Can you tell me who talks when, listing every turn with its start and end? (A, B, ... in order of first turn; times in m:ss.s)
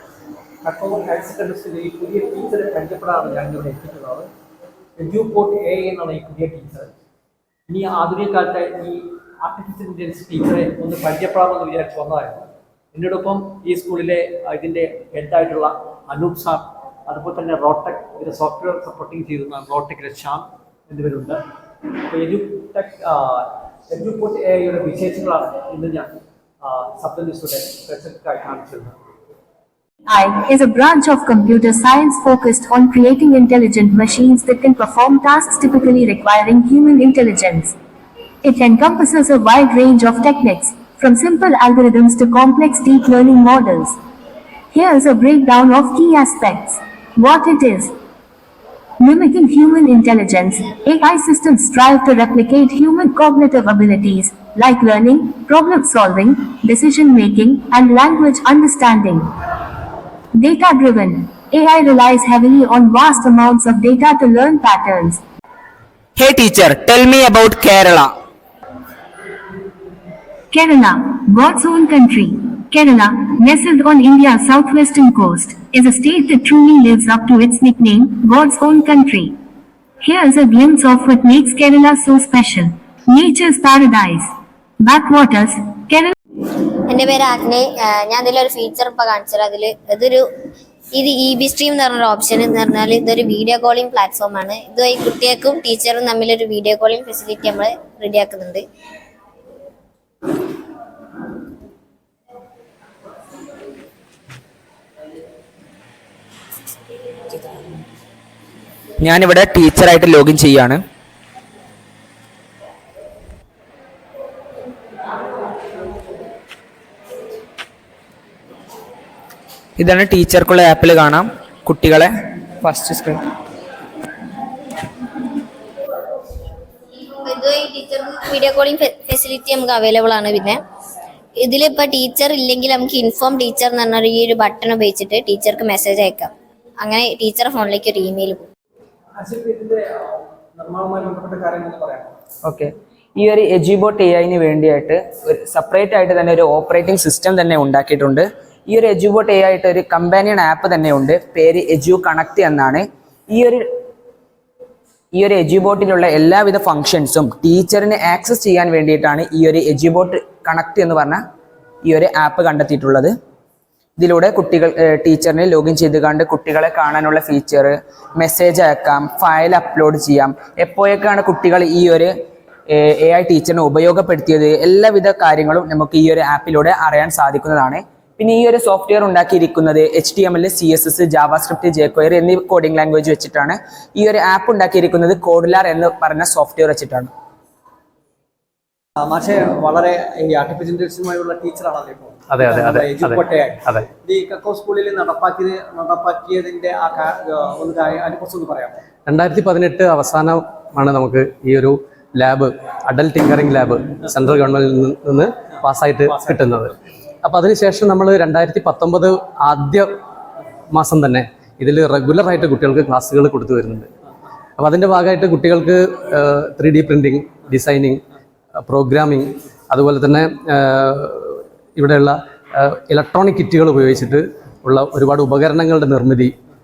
0:00.6-0:04.3 A
0:05.0-0:06.9 A
0:07.7-0:21.4 A
0:22.1-0:26.1 A
0:26.6-0:28.9 A
0:30.1-0:37.8 B
0:38.4-0:43.9 B
0:44.7-0:47.9 B
0:49.0-0:59.3 B
1:00.4-1:05.2 B
1:06.2-1:08.1 C
1:10.5-1:19.3 B
1:20.0-1:24.3 B
1:24.8-1:26.1 B
1:26.9-1:30.2 D
1:30.9-1:38.6 D
1:49.0-1:50.8 C
1:59.8-2:03.2 C
2:07.2-2:10.6 D
2:11.4-2:18.5 D
2:19.2-2:22.1 A
2:22.4-2:33.6 C
2:35.1-2:41.2 C
2:41.8-2:43.1 C
2:44.0-2:52.1 C
2:52.7-3:07.1 C
3:09.0-3:18.8 A
3:12.4-3:13.8 E
3:19.1-3:26.7 E
3:26.0-3:26.7 A
3:27.2-3:29.8 E
3:30.7-3:33.9 E
3:34.6-3:38.0 E
3:38.7-3:46.3 E